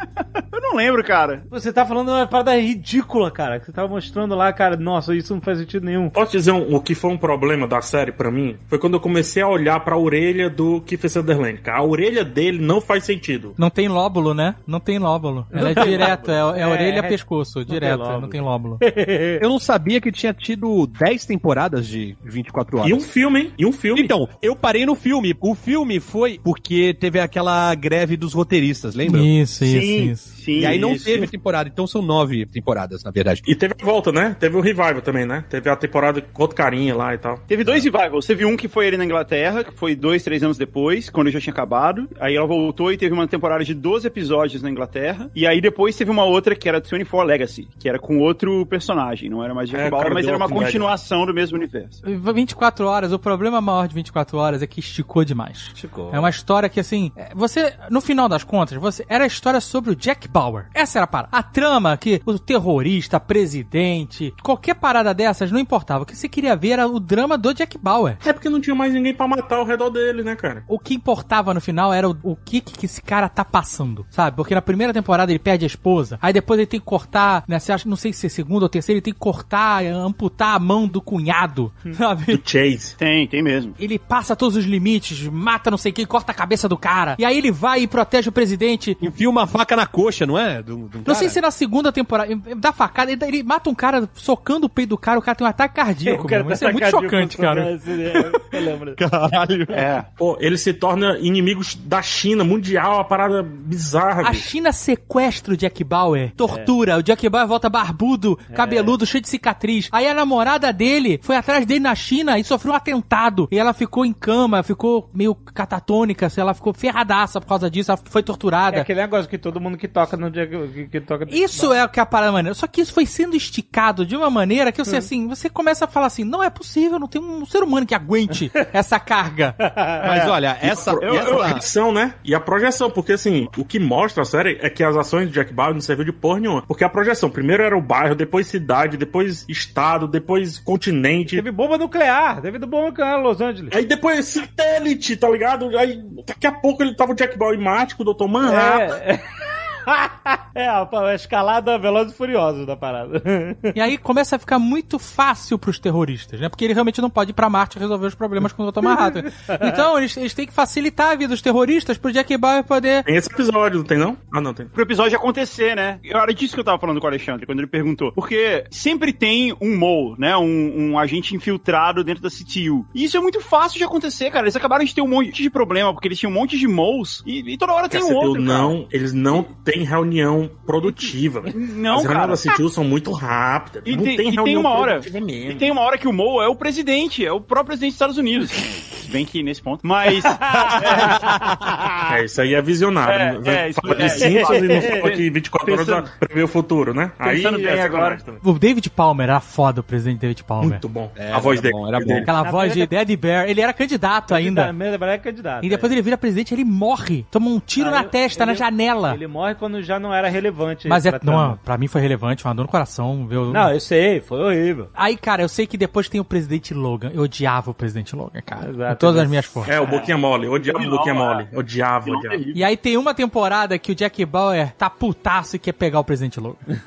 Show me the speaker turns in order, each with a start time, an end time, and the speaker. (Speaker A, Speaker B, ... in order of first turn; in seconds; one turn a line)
Speaker A: 0.5-1.4
Speaker B: 1.5-6.1
Speaker C: 6.1-13.6
Speaker D: 13.6-18.8
Speaker B: 15.5-19.4
Speaker E: 19.4-23.1
Speaker C: 22.8-24.1
Speaker E: 23.9-29.3
Speaker D: 29.0-30.3
Speaker A: 29.6-31.3
Speaker C: 30.6-31.1
Speaker E: 30.6-33.5
Speaker C: 33.4-37.5
Speaker A: 37.5-52.0
Speaker C: 49.7-50.9
Speaker D: 52.0-68.2
Speaker B: 55.7-56.3
Speaker C: 68.2-70.7
Speaker D: 70.7-82.4
Speaker C: 82.3-83.0
Speaker A: 83.0-83.7
Speaker D: 83.8-89.0
Speaker E: 89.0-91.4
Speaker D: 91.0-98.3
Speaker B: 96.0-99.0
Speaker E: 99.0-99.8
Speaker A: 99.7-100.0
Speaker C: 100.2-104.4
Speaker D: 104.2-118.9
Speaker B: 108.5-109.0
Speaker B: 118.7-121.8
Speaker D: 121.3-129.6
Speaker B: 129.7-130.0
Speaker E: 130.0-131.6
Speaker A: 130.0-130.3
Speaker C: 130.6-141.4
Speaker A: 131.0-131.6
Speaker B: 141.3-143.7
Speaker C: 143.7-148.9
Speaker B: 148.4-153.8
Speaker D: 153.7-163.1
Speaker B: 158.8-159.7
Speaker C: 163.1-164.7
Speaker A: 164.7-178.8
Speaker C: 177.9-185.7
Speaker A: 180.9-182.5
Speaker A: 183.8-191.2
Speaker B: 190.3-191.2
Speaker C: 192.1-198.4
Speaker A: 193.0-196.1
Speaker B: 194.0-195.0
Speaker A: 197.2-198.3
Speaker D: 198.4-200.8
Speaker C: 200.6-202.3
Speaker E: 201.2-202.3
Speaker D: 202.2-204.7
Speaker B: 202.4-202.9
Speaker B: 204.3-205.9
Speaker D: 205.6-209.2
Speaker B: 207.8-211.6
Speaker D: 210.9-213.7
Speaker B: 213.5-214.9
Speaker D: 214.9-219.7
Speaker B: 218.6-219.6
Speaker C: 219.7-222.4
Speaker A: 219.8-221.5
Speaker A: 222.0-222.6
Speaker D: 222.5-226.6